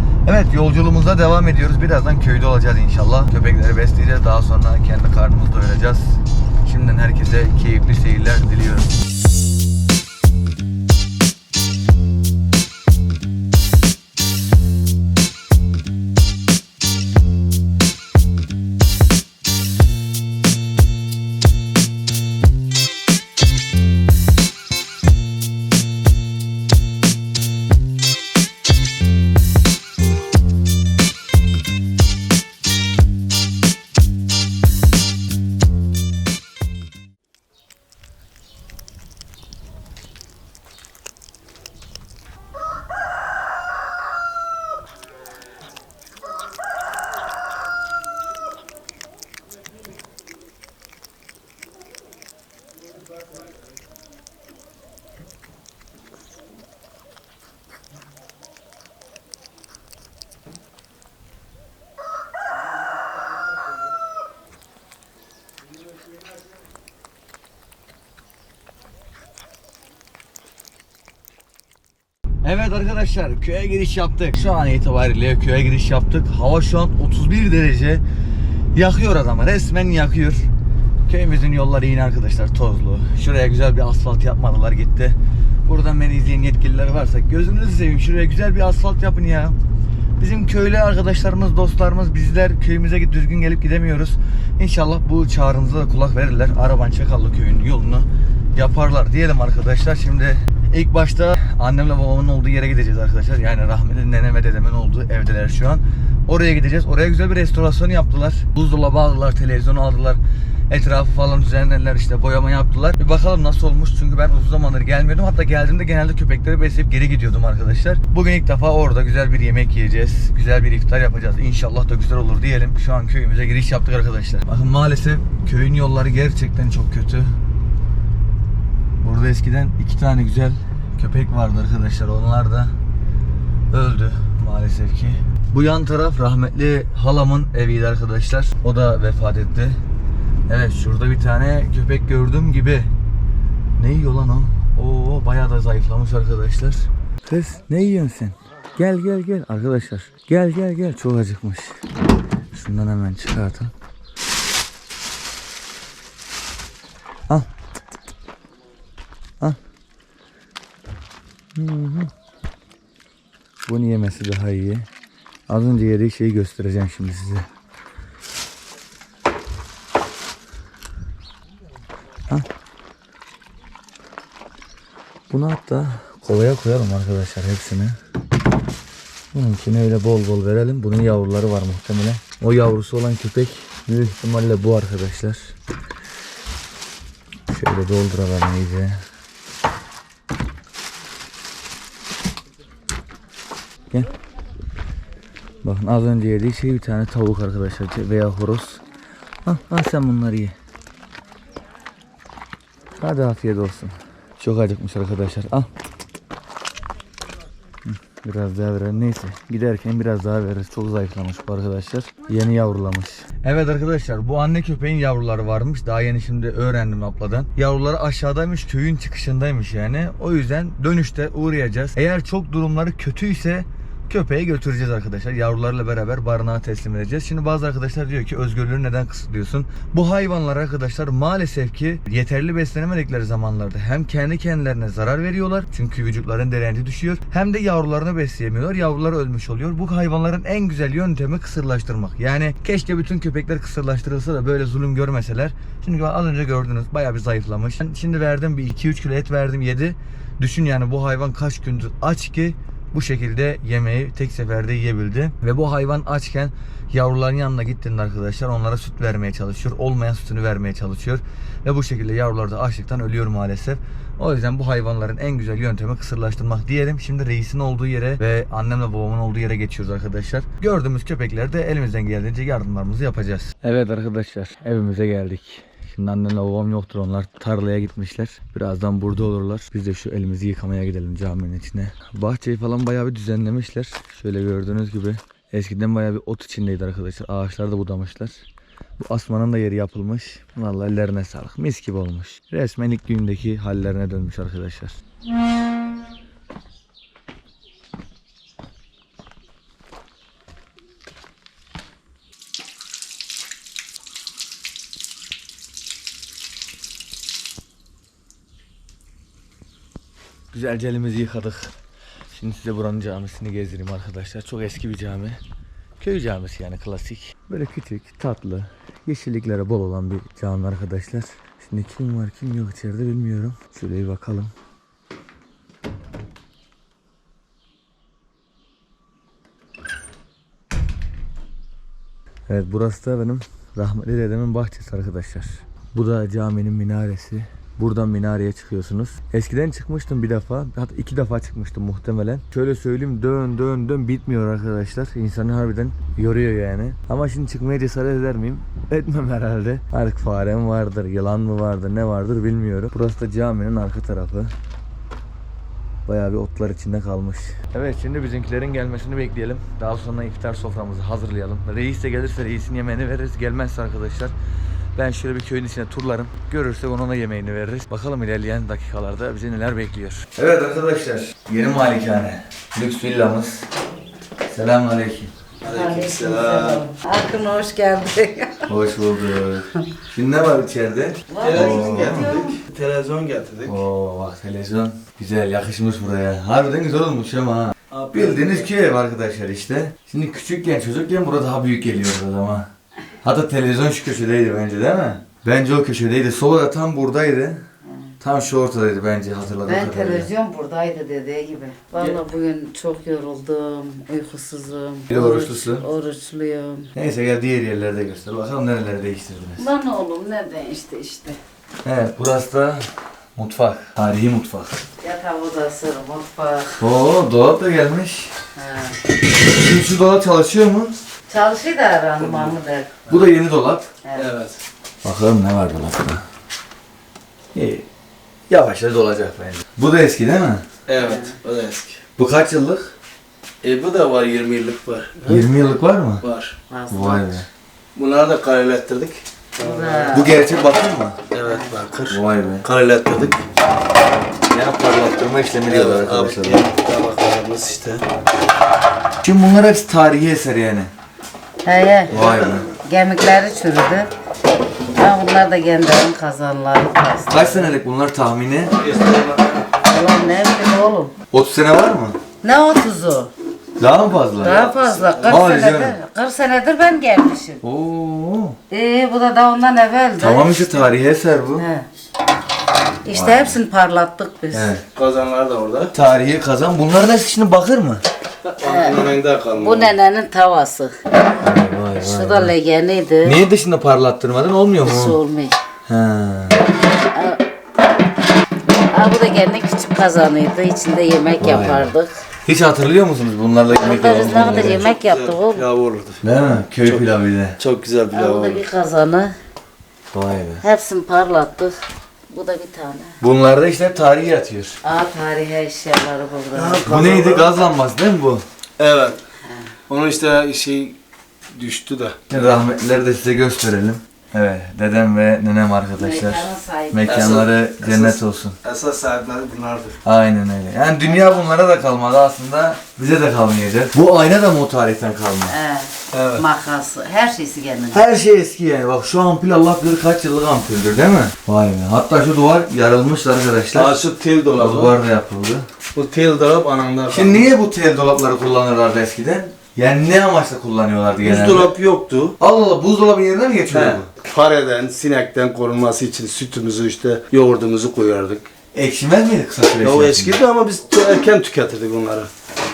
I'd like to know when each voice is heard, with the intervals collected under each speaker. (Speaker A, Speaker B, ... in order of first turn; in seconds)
Speaker A: 0.2-8.9, 72.4-78.0, 78.7-80.5, 81.1-89.6, 90.2-127.3, 129.0-132.8, 133.7-139.8, 140.5-142.9, 143.8-151.8, 152.5-153.7, 161.6-162.1, 163.7-164.9, 165.5-167.5, 175.3-178.0, 179.3-185.6, 187.5-189.0, 195.6-198.8, 199.4-200.6, 203.0-205.7, 207.8-288.4, 289.0-295.0, 310.5-311.8, 312.3-315.4, 316.0-324.5, 332.5-354.5, 356.1-364.3, 365.0-373.7, 374.5-375.3, 378.7-382.4, 383.7-392.7, 393.2-397.6, 398.2-400.3, 405.1-405.8, 406.9-409.6, 411.9-414.8, 416.8-418.3, 419.5-420.9, 423.1-423.9, 425.0-426.2, 427.5-427.9, 428.5-430.7, 432.2-432.9, 435.3-436.2, 436.9-437.5, 440.1-441.2, 442.1-442.7, 444.5-446.7, 449.2-450.9, 452.1-452.7, 457.3-458.8, 461.3-462.2, 463.8-464.6, 465.3-465.9, 467.6-468.6, 470.2-471.6, 473.1-473.6, 474.5-474.8, 475.9-478.0, 481.4-482.5, 483.2-485.2, 485.9-486.6, 491.4-491.9, 492.4-494.9, 496.2-497.6, 500.1-500.6, 503.2-504.8, 506.9-508.4, 512.3-518.6, 520.0-525.5, 527.9-534.0, 534.6-535.7, 537.1-541.7, 542.4-544.1, 548.7-550.4
Speaker B: 375.6-376.8, 381.4-383.8, 387.9-388.7, 422.2-422.6, 424.1-424.6, 430.9-432.0, 433.6-435.5, 436.2-436.6, 437.9-440.3, 441.3-443.4, 445.7-448.1, 452.1-452.8, 458.8-459.7, 464.4-465.5, 474.9-475.9, 478.4-479.9, 494.3-496.2, 497.6-498.6, 506.5-507.6, 508.8-509.2, 509.9-511.0, 511.5-512.2, 517.1-520.0, 526.1-526.5, 533.7-535.0, 535.9-537.5, 541.2-542.4, 543.7-548.5, 549.8-552.3
Speaker C: 375.7-378.7, 381.3-382.6, 397.9-398.1, 399.7-406.9, 409.6-411.4, 415.0-416.8, 418.6-419.0, 421.3-423.0, 424.0-424.3, 431.0-431.4, 436.7-437.4, 439.6-440.3, 441.4-441.7, 451.6-452.1, 452.9-454.1, 454.9-457.8, 459.8-461.1, 462.4-463.3, 464.4-467.6, 468.7-470.9, 471.6-471.9, 473.1-474.7, 478.6-479.0, 479.6-481.0, 482.0-483.4, 484.8-485.6, 487.1-487.4, 488.9-492.1, 493.7-495.7, 498.1-499.4, 500.6-501.8, 502.3-503.2, 504.8-506.9, 509.4-509.7, 516.0-517.4, 521.0-521.5, 525.5-528.0